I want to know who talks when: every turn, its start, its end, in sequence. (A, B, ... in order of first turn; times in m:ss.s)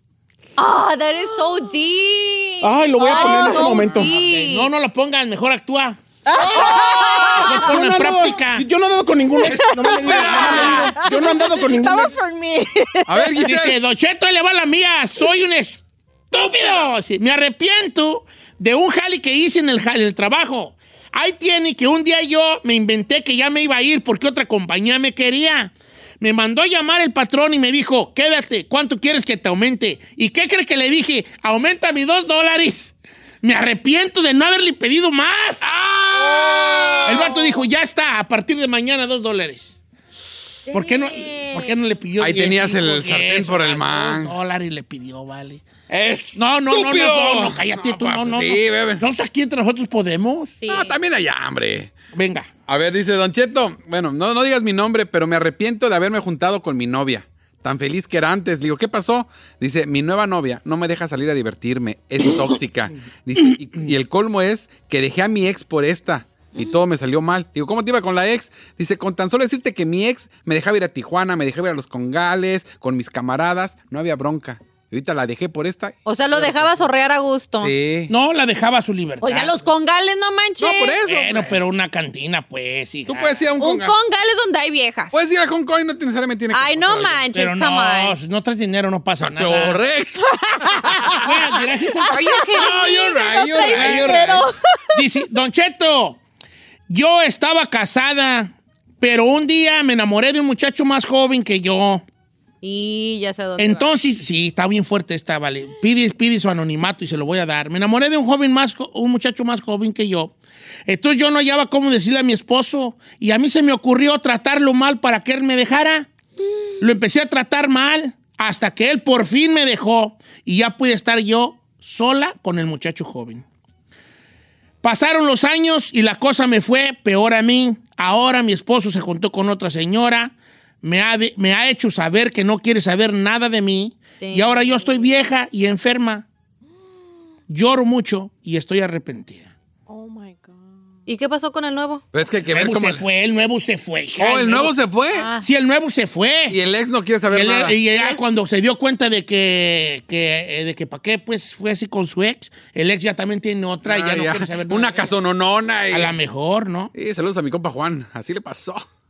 0:00.6-0:04.7 A
0:02.6-0:04.1 B
0:03.0-0:06.0 C
0:06.2-0:07.6 D
0:06.4-0:07.4 E
0:07.4-0:12.2 B
0:07.4-0:08.6 C
0:09.4-0:13.3 D
0:09.4-0:10.9 E
0:10.1-0:10.9 C
0:13.0-0:13.8 E
0:13.4-0:35.7 C
0:35.6-0:37.3 E
0:36.2-0:37.3 A
0:37.0-0:39.8 C
0:40.7-0:41.7 A
0:40.7-0:45.6 C
0:42.2-0:44.3 E
0:45.9-0:49.1 E
0:46.3-0:50.5 C
0:50.6-0:51.0 A
0:50.7-0:51.9 E
0:52.1-0:52.5 C
0:52.7-1:16.8 E
1:16.0-1:17.7 A
1:17.6-1:18.1 E
1:18.1-1:19.6 C
1:19.2-1:21.0 A
1:20.6-1:21.6 E
1:21.0-1:23.4 C
1:23.1-1:23.9 E
1:23.6-1:25.2 A
1:25.1-1:27.2 E
1:26.5-1:28.2 A
1:27.3-1:29.8 C
1:29.2-1:31.3 E
1:30.3-1:31.3 D
1:31.1-1:32.2 C
1:32.0-1:32.6 D
1:32.1-1:34.2 A
1:32.5-1:34.5 E
1:33.4-1:35.0 D
1:33.7-1:34.1 C
1:34.9-1:36.2 C
1:36.9-1:42.0 C
1:42.6-1:43.9 A
1:43.6-1:50.3 C
1:50.9-1:56.1 C
1:56.8-2:03.4 C
2:04.8-2:16.2 C
2:14.2-2:15.1 A
2:17.5-2:19.5 C
2:19.9-2:20.8 D
2:21.1-2:22.0 A
2:22.1-2:23.0 E
2:22.5-2:24.8 C
2:24.2-2:25.3 E
2:25.1-2:25.4 A
2:25.4-2:26.6 C
2:26.5-2:27.8 E
2:27.3-2:35.1 C
2:27.9-2:28.3 A
2:33.8-2:36.2 E
2:35.9-2:36.9 C
2:36.9-2:38.8 E